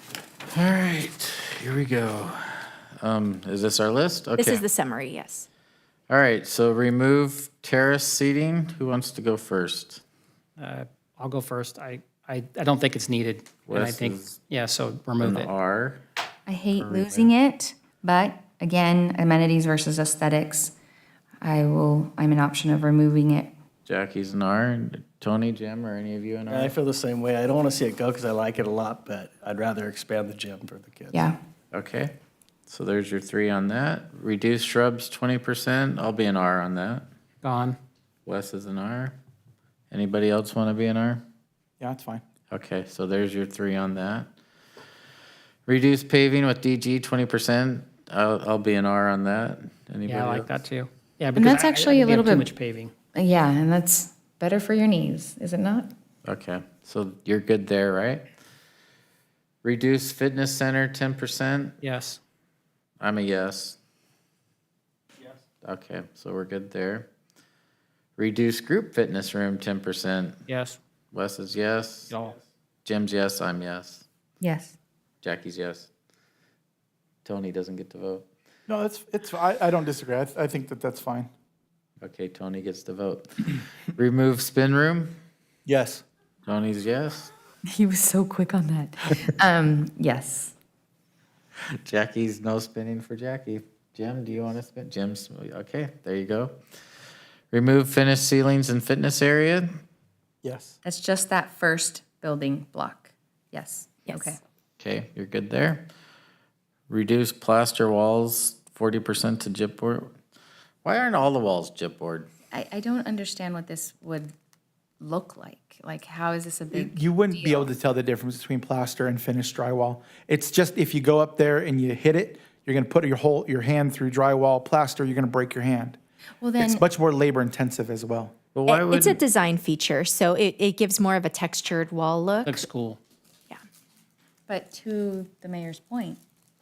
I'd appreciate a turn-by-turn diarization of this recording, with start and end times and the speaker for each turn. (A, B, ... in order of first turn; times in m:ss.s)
0:00.5-0:04.6 A
0:04.4-0:05.5 B
0:06.1-0:10.0 A
0:10.6-0:15.5 C
0:13.7-0:14.4 A
0:15.2-0:16.0 A
0:16.5-0:20.7 D
0:21.4-0:23.5 D
0:23.9-0:26.8 A
0:26.5-0:31.3 E
0:31.1-0:31.4 D
0:31.7-0:32.1 A
0:32.7-0:37.1 A
0:37.4-0:37.8 C
0:38.3-0:39.2 A
0:39.9-0:41.2 A
0:41.8-0:42.2 F
0:42.5-0:44.3 A
0:45.7-0:50.5 A
0:50.1-0:52.9 C
0:51.4-0:52.5 D
0:53.2-0:55.9 D
0:56.2-0:58.2 A
0:59.6-1:01.8 A
1:01.8-1:02.2 C
1:03.0-1:03.8 A
1:05.6-1:07.1 A
1:08.2-1:10.4 A
1:10.5-1:10.8 C
1:11.1-1:12.1 A
1:12.1-1:12.4 C
1:12.8-1:14.0 A
1:14.4-1:14.8 D
1:15.2-1:15.9 A
1:17.2-1:18.2 A
1:18.7-1:21.3 F
1:22.0-1:25.2 A
1:25.7-1:26.0 F
1:26.5-1:27.3 A
1:27.7-1:30.5 D
1:31.8-1:36.6 A
1:37.5-1:39.7 A
1:40.4-1:40.8 F
1:40.8-1:44.4 D
1:44.1-1:44.3 B
1:44.8-1:45.9 A
1:46.9-1:50.1 A
1:50.8-1:52.3 A
1:52.5-1:54.3 D
1:55.0-1:57.7 D
1:56.7-2:06.0 F
2:06.4-2:06.8 D
2:06.6-2:08.3 F
2:08.5-2:09.2 A
2:08.7-2:12.7 B
2:12.4-2:13.0 C
2:14.5-2:16.2 D